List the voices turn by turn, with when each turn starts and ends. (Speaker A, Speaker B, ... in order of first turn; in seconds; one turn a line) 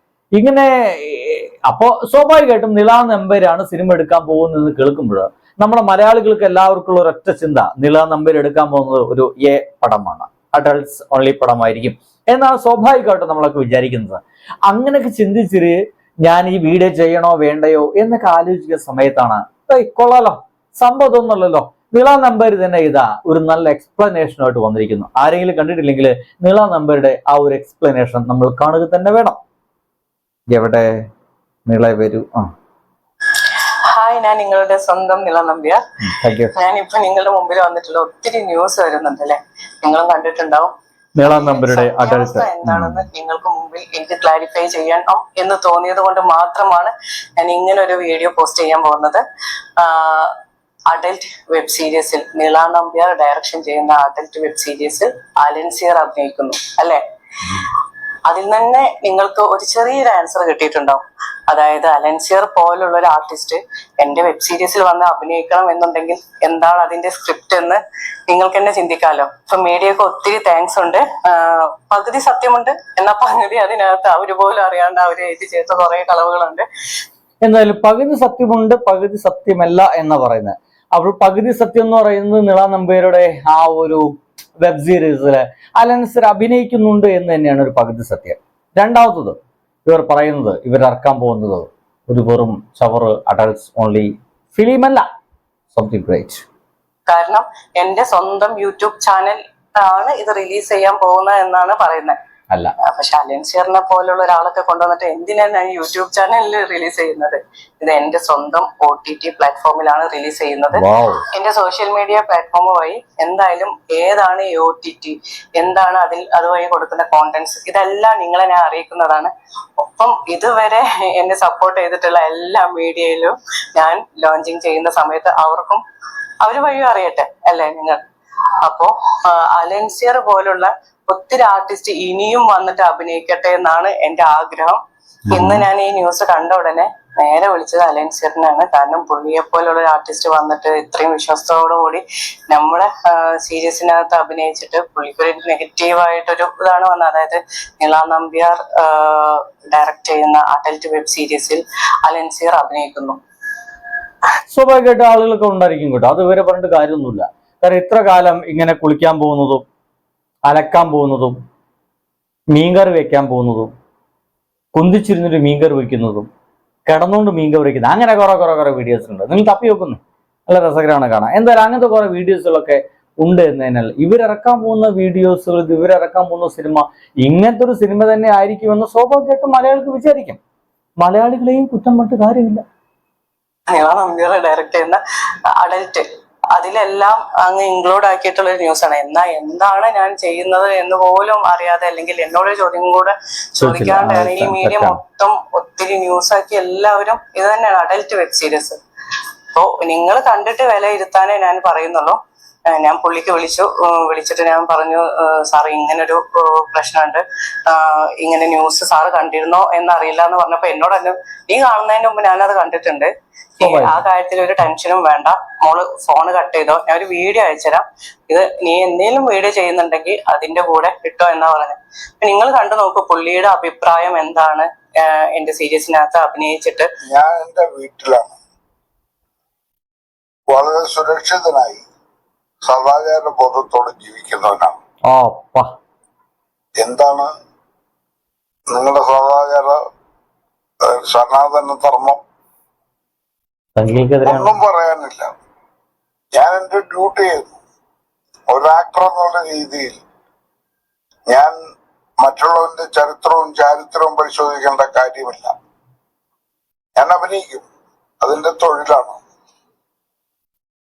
Speaker A: 0.4-29.4
Speaker A: 30.5-30.9
Speaker A: 31.7-32.5
Speaker B: 33.4-35.8
Speaker A: 36.0-36.5
Speaker B: 36.5-49.2
Speaker A: 41.2-43.0
Speaker B: 49.8-50.4
Speaker B: 50.9-57.0
Speaker B: 58.2-76.7
Speaker A: 77.4-84.0
Speaker A: 84.6-95.0
Speaker A: 95.7-96.4
Speaker B: 97.1-102.2
Speaker B: 102.8-125.8
Speaker A: 110.7-111.3
Speaker B: 126.4-128.0
Speaker B: 128.6-134.8
Speaker A: 135.3-135.6
Speaker B: 135.3-153.2
Speaker A: 154.5-159.6
Speaker A: 160.5-161.4
Speaker A: 162.5-163.7
Speaker A: 164.7-166.3
Speaker A: 166.9-180.4
Speaker A: 181.0-182.6
Speaker B: 183.7-198.8
Speaker A: 193.6-195.0
Speaker B: 199.5-202.2
Speaker B: 202.7-226.9
Speaker A: 213.6-214.0
Speaker C: 227.0-228.4
Speaker C: 230.5-231.8
Speaker C: 232.6-234.8
Speaker A: 235.1-235.7
Speaker C: 236.8-237.3
Speaker C: 238.7-239.8
Speaker C: 240.8-242.2
Speaker A: 243.8-244.5
Speaker C: 244.2-245.3
Speaker C: 246.3-247.6
Speaker C: 248.5-250.0
Speaker C: 251.3-251.6
Speaker C: 252.2-255.5
Speaker C: 256.9-257.6
Speaker C: 258.2-259.2